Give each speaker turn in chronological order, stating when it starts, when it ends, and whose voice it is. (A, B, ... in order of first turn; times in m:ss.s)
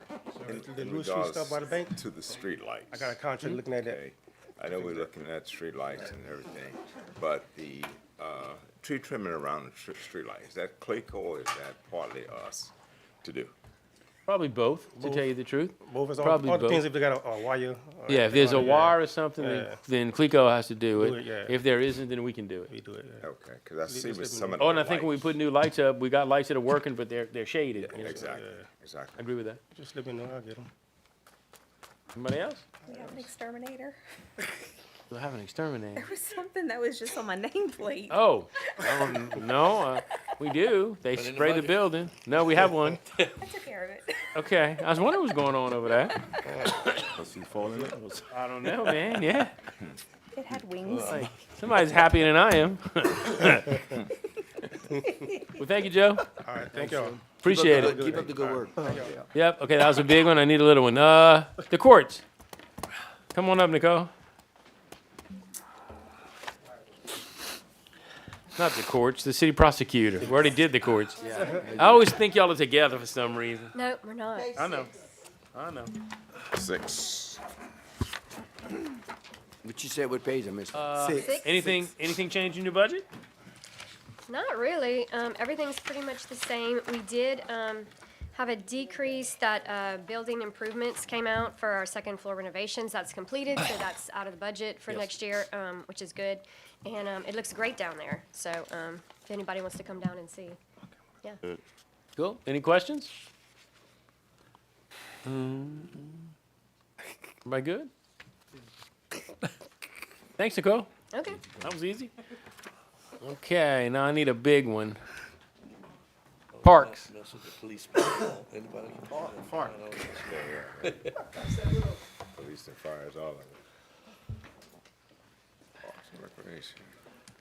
0:00.4-0:13.5 A
0:00.4-0:02.0 B
0:02.9-0:04.1 B
0:04.8-0:05.0 B
0:14.2-0:16.8 C
0:15.0-0:15.3 B
0:15.8-0:19.8 B
0:18.1-0:22.7 C
0:20.9-0:21.6 B
0:22.7-0:23.3 B
0:23.2-0:25.4 A
0:23.9-0:24.6 B
0:24.6-0:28.3 C
0:27.8-0:29.2 A
0:28.0-0:28.7 B
0:29.2-0:29.6 C
0:29.7-0:30.7 B
0:32.1-0:32.6 C
0:32.9-0:34.0 D
0:32.9-0:33.2 B
0:35.1-0:36.1 C
0:36.0-0:38.2 D
0:38.1-0:43.0 C
0:41.1-0:41.8 E
0:43.5-0:44.0 D
0:44.3-0:47.0 C
0:46.4-0:47.0 B
0:47.1-0:48.2 E
0:47.6-0:47.9 B
0:48.3-0:49.5 C
0:50.4-0:51.3 D
0:50.8-0:51.2 E
0:50.9-0:54.0 C
0:54.9-0:55.2 B
0:55.5-0:56.3 C
0:56.4-0:59.2 B
0:56.7-0:59.2 F
0:57.4-0:58.0 C
0:59.3-1:02.2 C
1:03.3-1:04.1 C
1:08.5-1:13.7 C
1:11.3-1:12.0 F
1:13.7-1:14.5 G
1:14.5-1:14.9 C
1:15.5-1:15.9 C
1:16.5-1:17.4 A
1:19.6-1:21.2 F
1:20.7-1:23.0 C
1:21.0-1:21.3 B
1:21.2-1:21.7 G
1:24.3-1:40.6 G
1:42.2-1:43.1 C
1:47.4-1:47.9 C
1:50.4-1:50.9 C
1:51.1-1:51.5 G
1:51.5-1:52.1 C
1:53.2-1:55.0 C
1:56.5-2:00.4 E
1:56.6-1:57.1 C
2:00.2-2:01.0 A
2:02.3-2:03.6 A
2:05.8-2:06.8 A